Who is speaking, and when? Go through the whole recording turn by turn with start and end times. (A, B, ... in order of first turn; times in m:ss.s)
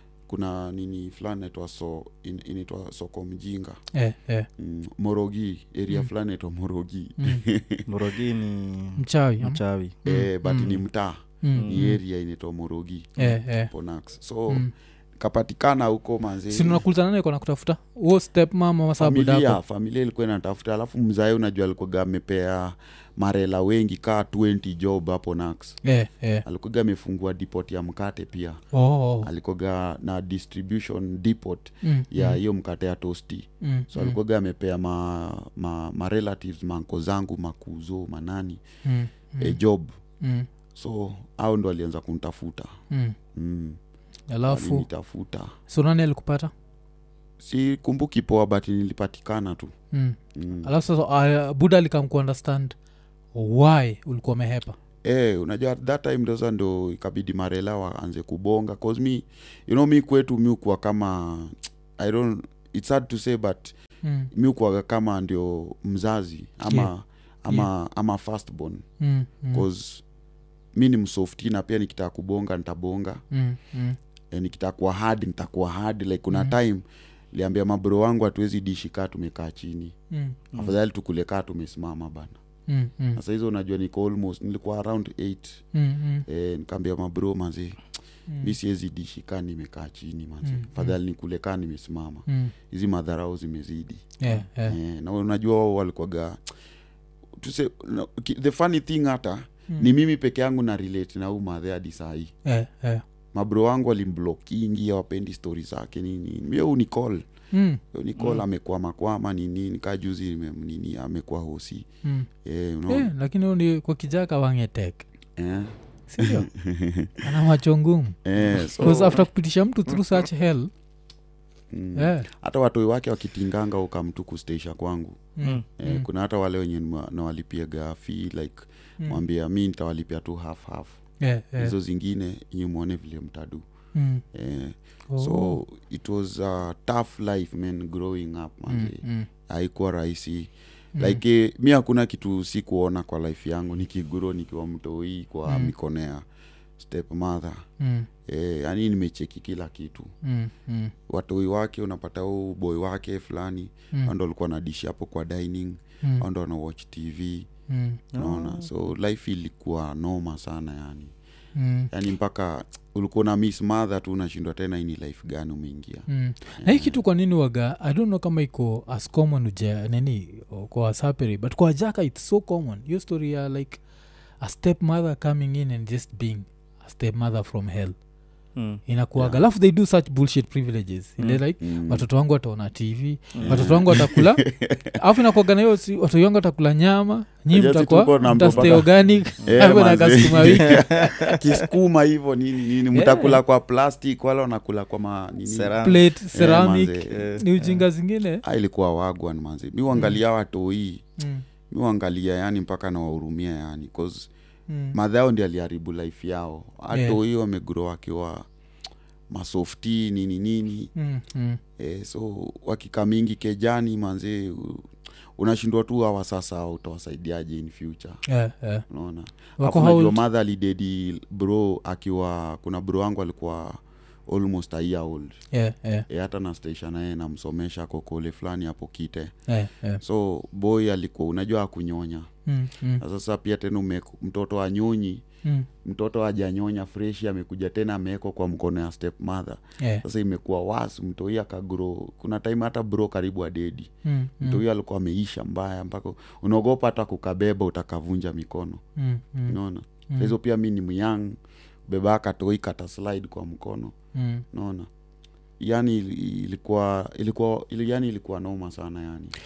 0:00.3-0:03.8 A
0:03.9-0:04.5 B
0:04.6-0:07.9 A
0:07.2-0:07.4 B
0:07.9-0:10.0 C
0:09.0-0:10.8 B
0:10.0-0:16.8 A
0:11.4-0:12.0 B
0:11.5-0:11.9 C
0:13.2-0:13.7 B
0:16.5-0:19.6 B
0:19.0-0:25.8 A
0:25.8-0:26.4 B
0:26.4-0:28.6 A
0:28.7-0:29.3 B
0:29.2-0:38.6 A
0:31.8-0:32.4 B
0:33.6-0:34.2 B
0:38.8-0:39.6 B
0:39.4-0:39.9 A
0:40.2-0:40.5 B
0:40.7-0:42.7 A
0:42.9-0:43.2 B
0:43.3-0:43.8 A
0:44.3-0:44.8 B
0:44.4-0:45.5 A
0:45.7-0:46.5 B
0:47.4-0:49.7 A
0:49.9-0:52.8 B
0:50.3-0:50.7 A
0:53.3-0:54.8 B
0:55.0-1:03.7 A
1:04.0-1:04.3 B
1:04.3-1:08.8 A
1:09.0-1:09.6 B
1:09.5-1:10.0 A
1:10.7-1:13.2 A
1:13.3-1:14.0 B
1:14.3-1:19.9 A
1:20.1-1:20.4 B
1:20.5-1:22.4 A
1:22.7-1:23.2 B
1:23.2-1:25.6 A
1:25.7-1:26.2 B
1:26.3-1:27.8 A
1:28.3-1:28.5 B
1:28.4-1:36.4 A
1:30.4-1:31.0 B
1:32.3-1:32.5 B
1:34.2-1:34.8 B
1:37.4-1:42.3 A
1:42.4-1:43.0 B
1:43.3-1:47.2 A
1:47.5-1:47.8 B
1:47.9-1:51.8 A
1:52.4-1:53.1 A
1:52.9-1:55.0 B
1:55.4-1:57.2 A
1:56.1-1:56.5 B
1:57.2-2:00.7 B
1:58.2-1:59.2 A
1:58.7-1:59.2 C
2:01.7-2:05.2 A
2:02.0-2:02.3 B
2:05.4-2:06.0 B
2:05.8-2:11.0 A
2:11.2-2:11.7 B
2:11.6-2:13.6 A
2:13.9-2:14.2 B
2:14.3-2:26.2 A
2:15.1-2:15.6 B
2:18.7-2:19.3 B
2:20.9-2:21.2 B
2:25.4-2:25.7 B
2:26.8-2:27.6 A
2:27.8-2:28.1 B
2:28.2-2:30.1 A
2:30.2-2:30.9 B
2:31.1-2:37.5 A
2:37.7-2:38.0 B
2:38.1-2:38.7 C
2:38.2-2:41.1 A
2:41.5-2:41.9 B
2:41.9-2:46.0 A
2:46.1-2:53.8 B
2:46.6-2:47.0 A
2:54.4-2:57.9 B
2:58.6-2:58.8 C
2:58.8-3:10.8 B
2:59.2-2:59.4 A
3:01.6-3:02.0 A
3:03.3-3:03.8 C
3:03.4-3:05.0 A
3:07.5-3:08.9 A
3:08.4-3:09.6 C
3:09.4-3:17.2 A
3:10.4-3:11.4 C
3:12.9-3:13.4 B
3:15.4-3:16.0 C
3:15.8-3:18.4 B
3:17.1-3:17.8 C
3:18.4-3:21.0 A
3:21.2-3:21.4 B
3:21.7-3:24.3 A
3:24.7-3:25.0 B
3:24.9-3:28.5 A
3:26.9-3:27.2 B
3:29.3-3:30.9 A
3:30.9-3:31.6 B
3:31.8-3:38.2 A
3:38.3-3:38.8 B
3:38.9-3:45.4 A
3:39.6-3:40.2 B
3:45.5-3:46.0 B
3:46.1-3:49.3 A
3:49.5-3:50.0 B
3:50.0-3:52.3 A
3:52.4-3:53.0 B
3:53.0-3:55.2 A
3:55.8-4:03.9 A
3:59.8-4:00.0 B
4:04.0-4:04.6 B
4:04.4-4:08.8 A
4:09.0-4:09.6 B
4:09.5-4:13.9 A
4:10.1-4:10.4 B
4:14.1-4:14.4 B
4:14.5-4:14.9 A
4:15.6-4:19.4 A